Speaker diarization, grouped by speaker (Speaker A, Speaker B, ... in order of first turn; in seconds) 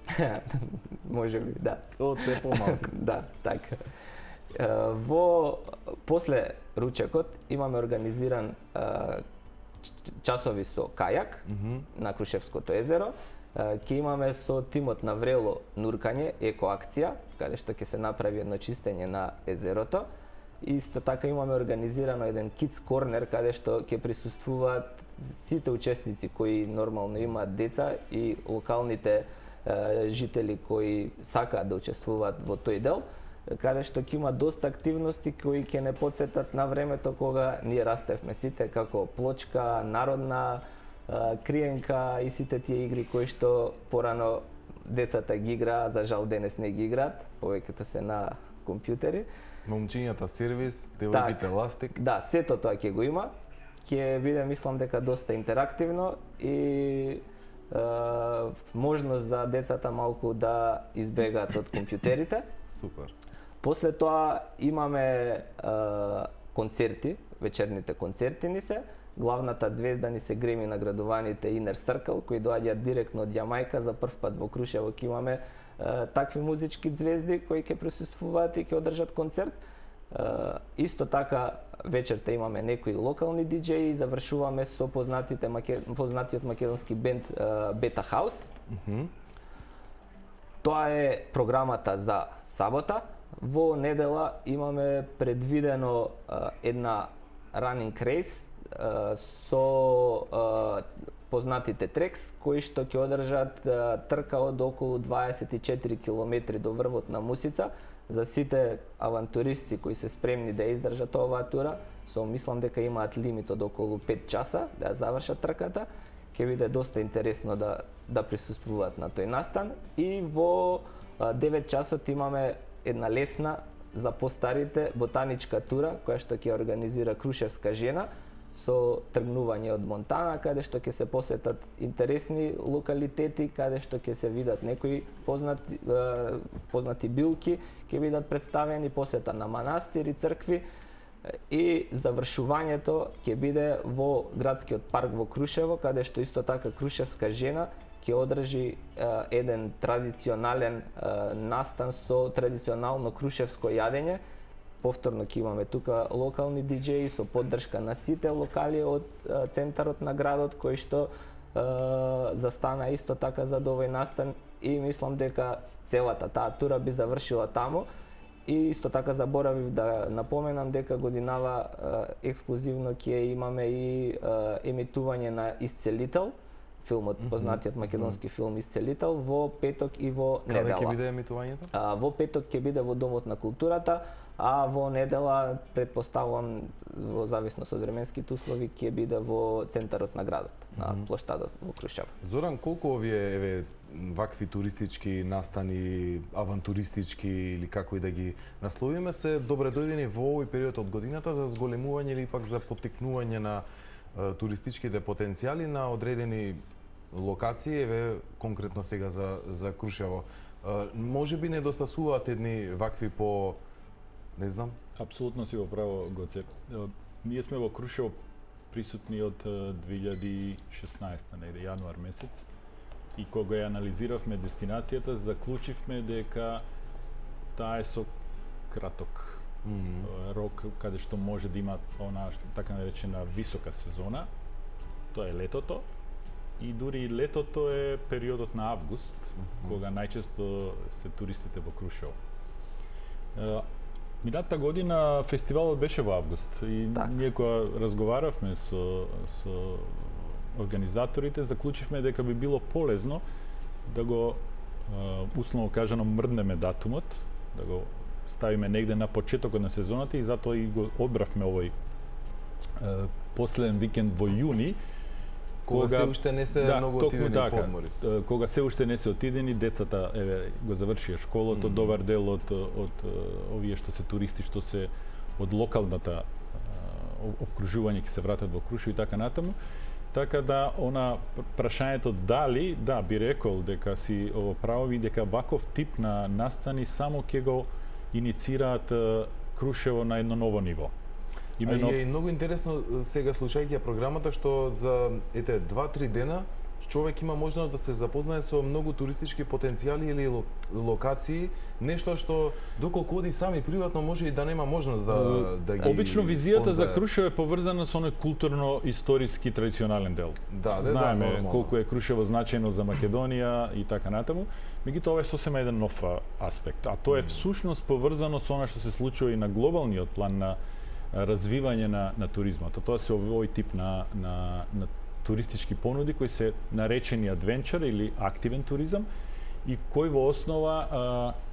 Speaker A: 0.1-3.8, 4.5-9.2, 10.0-20.1, 20.6-49.3, 51.1-53.3, 53.8-62.5, 63.6-79.6, 80.1-88.5, 90.6-140.6, 141.5-154.2, 154.8-167.9, 168.4-181.0, 181.7-192.1
Speaker B: 2.0-2.9, 11.5-11.8, 49.6-51.9, 62.7-63.1, 88.7-89.1, 177.2-178.2, 180.5-181.7, 190.8-191.0, 192.2-206.6, 207.1-213.6, 214.4-214.8, 229.6-230.1, 265.7-267.9, 271.5-271.9, 291.6-307.0, 310.5-311.7
Speaker C: 215.0-218.1, 218.7-222.4, 223.2-226.6, 227.5-228.1, 228.7-229.4, 230.0-234.3, 235.1-235.8, 236.6-242.2, 243.3-243.7, 244.2-253.2, 253.9-261.7, 262.8-264.8, 265.7-279.5, 280.1-290.9, 291.6-292.0, 305.1-320.6, 321.1-329.1, 329.6-331.4